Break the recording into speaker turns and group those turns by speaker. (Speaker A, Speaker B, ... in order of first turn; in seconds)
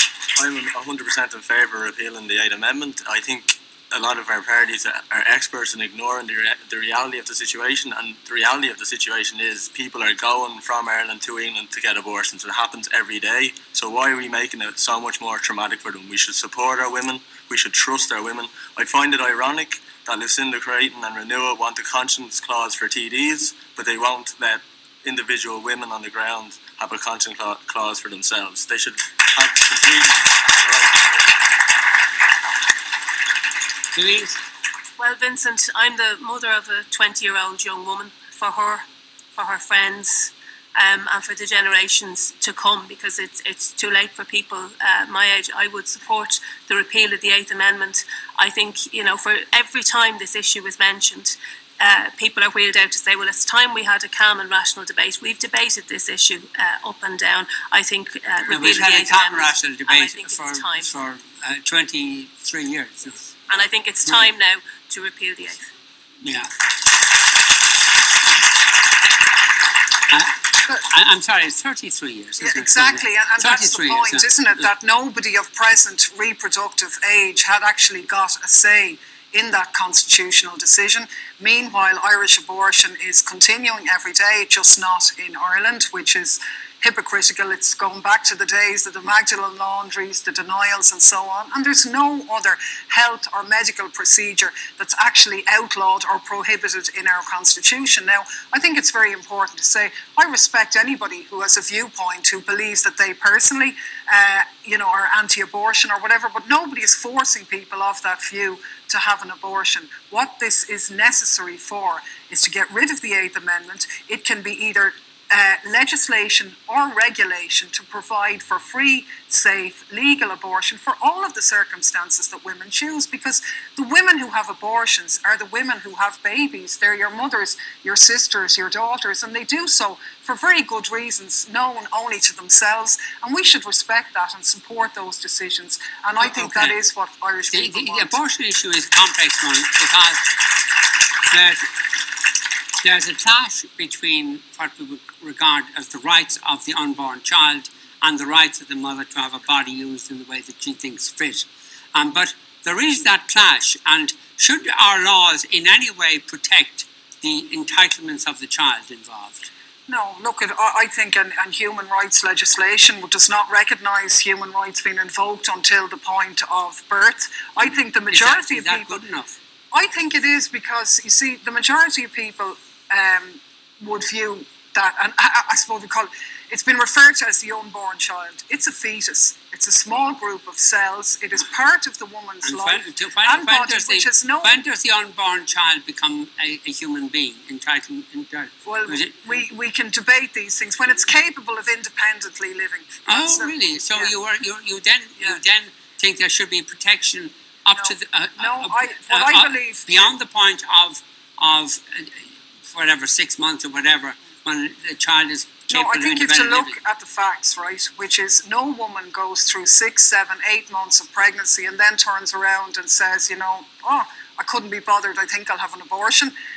Speaker A: 0.3-31.2
Speaker B: 33.9-34.4, 58.4-63.3, 66.2-66.5, 70.1-74.3, 136.2-136.7, 137.5-140.5, 141.3-141.7, 142.8-159.5, 168.1-169.3, 182.4-189.4, 193.1-206.8
Speaker C: 35.0-60.9, 63.5-65.7
Speaker D: 72.4-138.2, 159.9-169.0, 169.7-184.6, 188.6-194.1, 197.7-200.2, 205.7-216.3